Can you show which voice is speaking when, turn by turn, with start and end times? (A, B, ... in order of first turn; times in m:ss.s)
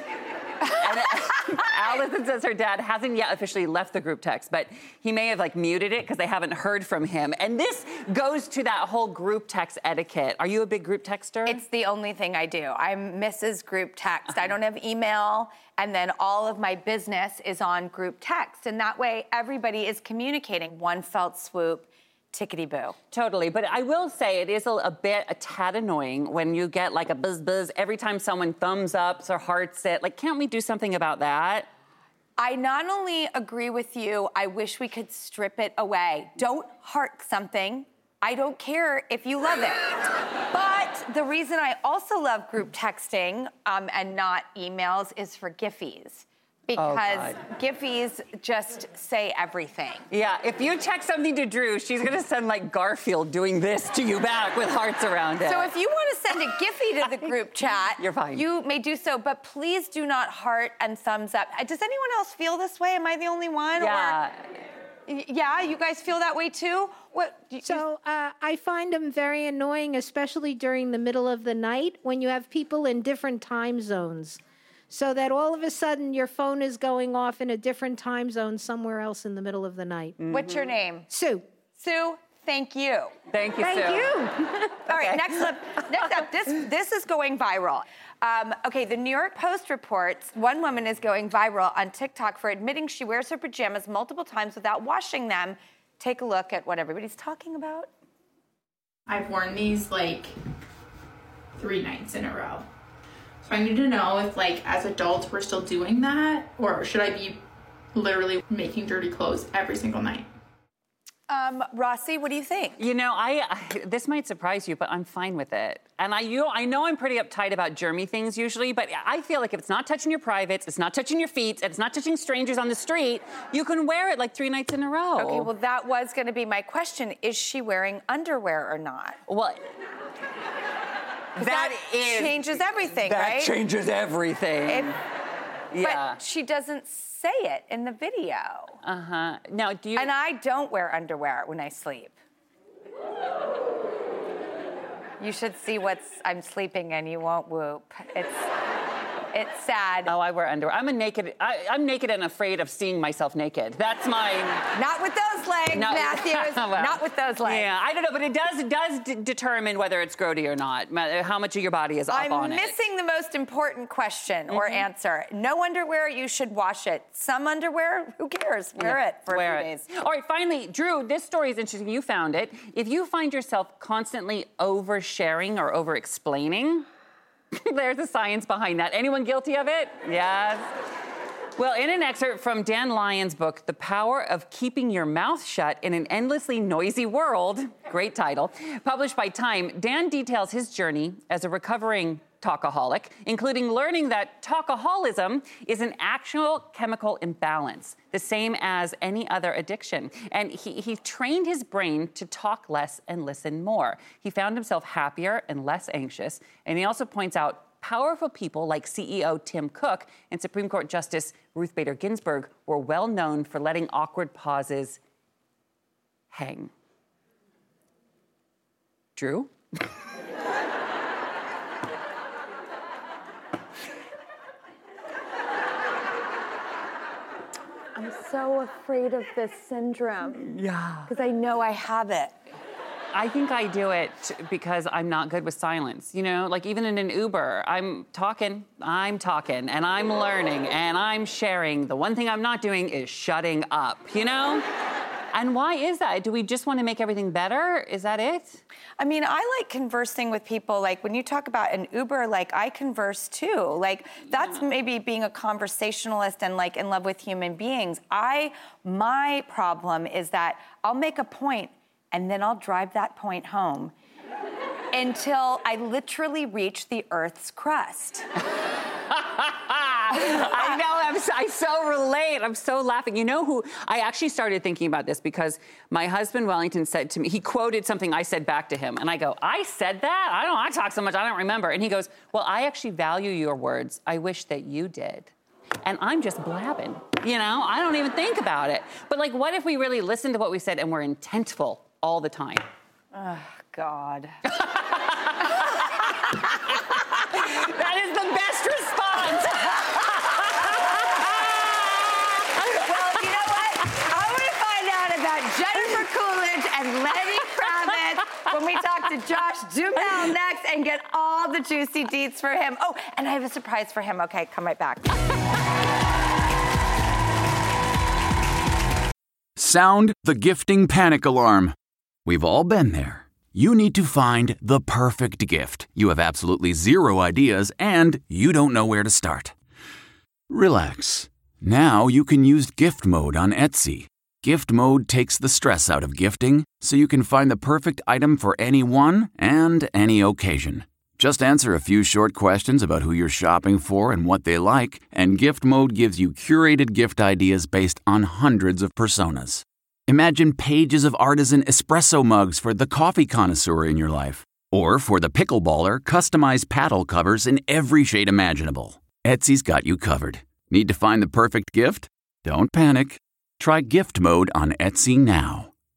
0:00.6-0:11.6 A
0:11.4-0:23.0 B
0:23.1-0:31.7 A
0:32.4-0:39.8 B
0:40.5-0:50.1 B
0:46.8-0:47.4 A
0:50.1-0:55.7 A
0:55.4-1:04.2 B
0:58.0-0:58.4 A
1:03.8-1:04.4 A
1:05.1-1:07.8 B
1:07.6-1:20.2 C
1:20.2-1:20.7 A
1:20.3-1:21.1 B
1:21.1-1:21.4 C
1:21.8-1:37.9 B
1:23.3-1:24.3 A
1:24.8-1:25.5 A
1:39.1-1:40.3 D
1:41.6-1:42.6 D
1:43.4-1:47.4 D
1:47.9-1:50.3 D
1:51.3-1:52.8 B
1:52.8-2:05.5 A
2:05.2-2:09.2 B
2:09.3-2:09.6 A
2:11.4-2:15.0 A
2:11.4-2:13.5 B
2:14.7-2:14.9 B
2:15.7-2:16.2 A
2:15.8-2:18.8 B
2:18.8-2:20.1 A
2:20.0-2:22.1 B
2:25.2-2:28.5 B
2:29.3-2:30.1 B
2:30.0-2:34.7 A
2:34.7-2:37.7 B
2:35.7-2:42.7 A
2:42.1-2:49.9 B
2:44.5-2:44.9 A
2:48.8-2:56.9 A
2:57.5-3:00.7 A
3:01.6-3:35.0 A
3:36.3-3:36.7 A
3:39.2-3:39.5 A
3:48.0-3:50.5 B
3:50.4-3:51.1 A
3:51.1-3:52.3 B
3:53.1-4:04.6 A
4:05.3-4:08.6 A
4:09.0-4:23.9 B
4:24.9-4:28.2 B
4:29.1-4:52.6 A
4:30.1-4:30.8 B
4:53.1-4:54.4 B
4:54.5-5:03.2 A
4:55.4-4:56.4 B
5:00.6-5:01.5 B
5:02.6-5:15.2 B
5:19.6-5:29.5 E
5:30.5-6:05.7 E